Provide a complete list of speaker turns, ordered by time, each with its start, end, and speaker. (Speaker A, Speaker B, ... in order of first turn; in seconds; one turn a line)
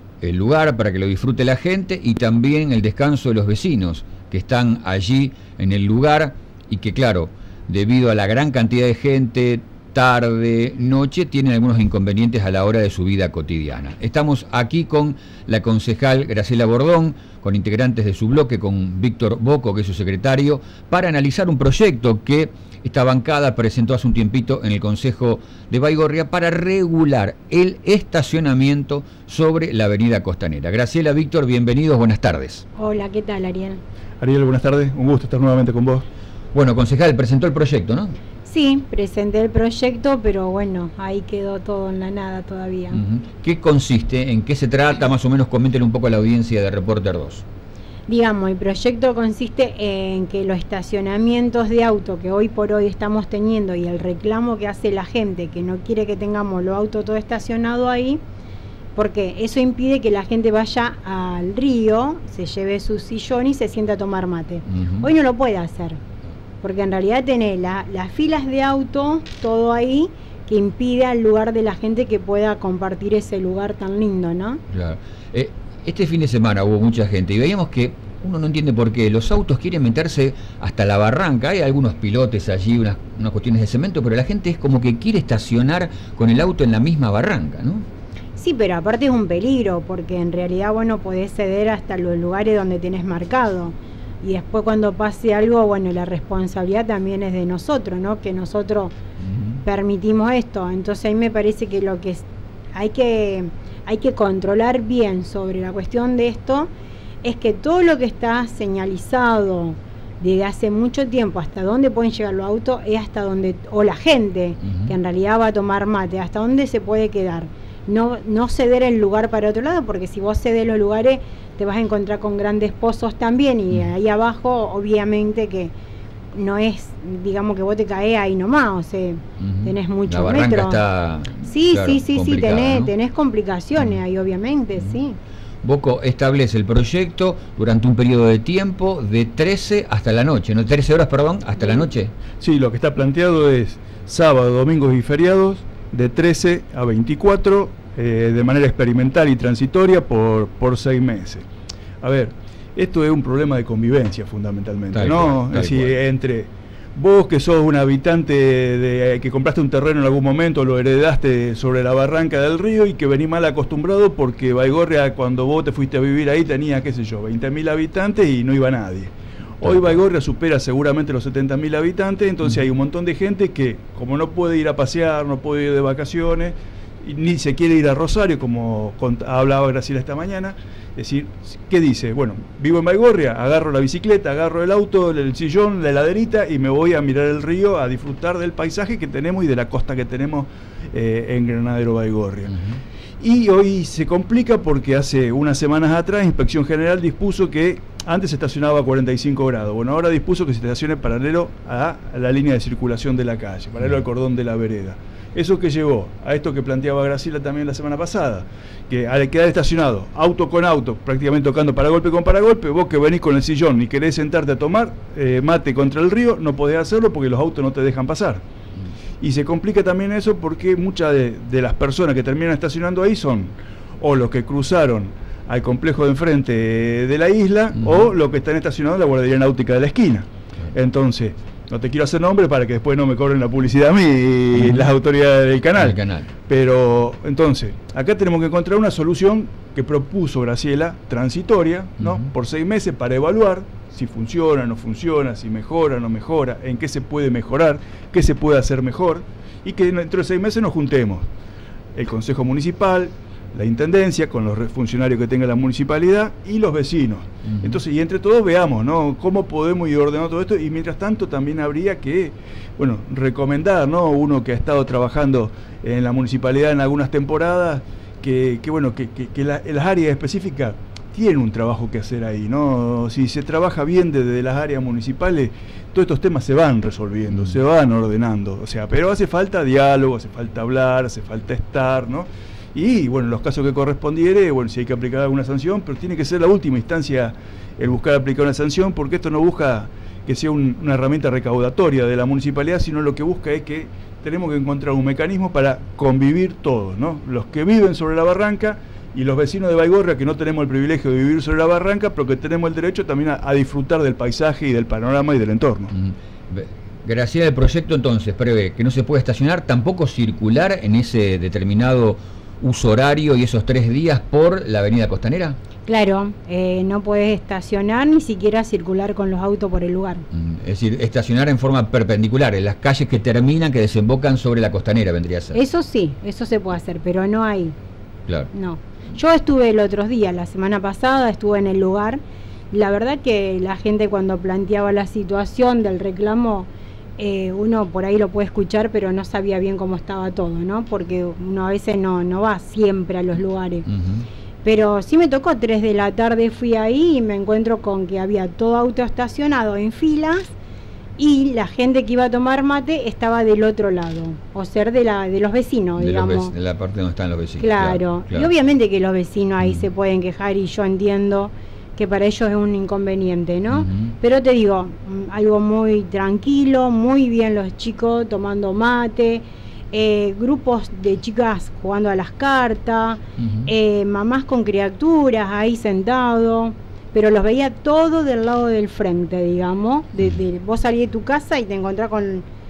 Speaker A: 0.2-32.7
Speaker B: 32.8-33.8
Speaker C: 34.2-36.0
Speaker A: 36.5-38.1
Speaker B: 38.5-43.0
Speaker A: 42.9-47.5
Speaker B: 48.1-58.2
Speaker B: 59.0-66.0
Speaker A: 64.7-65.1
Speaker B: 66.6-74.6
Speaker A: 74.7-87.9
Speaker B: 88.4-99.0
Speaker A: 99.3-99.6
Speaker B: 99.6-106.7
Speaker B: 107.2-125.7
Speaker B: 126.3-130.8
Speaker A: 129.4-132.9
Speaker B: 131.4-135.2
Speaker A: 135.6-142.1
Speaker C: 142.4-151.5
Speaker C: 152.0-192.6
Speaker A: 154.9-155.9
Speaker A: 169.6-170.0
Speaker A: 192.5-192.8
Speaker C: 193.2-218.4
Speaker C: 219.2-251.3
Speaker A: 234.6-234.9
Speaker A: 235.8-236.3
Speaker A: 242.0-242.3
Speaker C: 251.9-305.9
Speaker A: 257.4-257.8
Speaker A: 277.3-277.6
Speaker A: 305.9-315.6
Speaker B: 315.9-320.2
Speaker A: 320.3-325.6
Speaker B: 325.5-327.8
Speaker B: 328.5-343.9
Speaker A: 343.9-344.3
Speaker B: 344.6-350.5
Speaker B: 351.2-356.5
Speaker A: 356.0-358.5
Speaker B: 357.6-382.5
Speaker A: 363.7-364.1
Speaker A: 373.4-373.7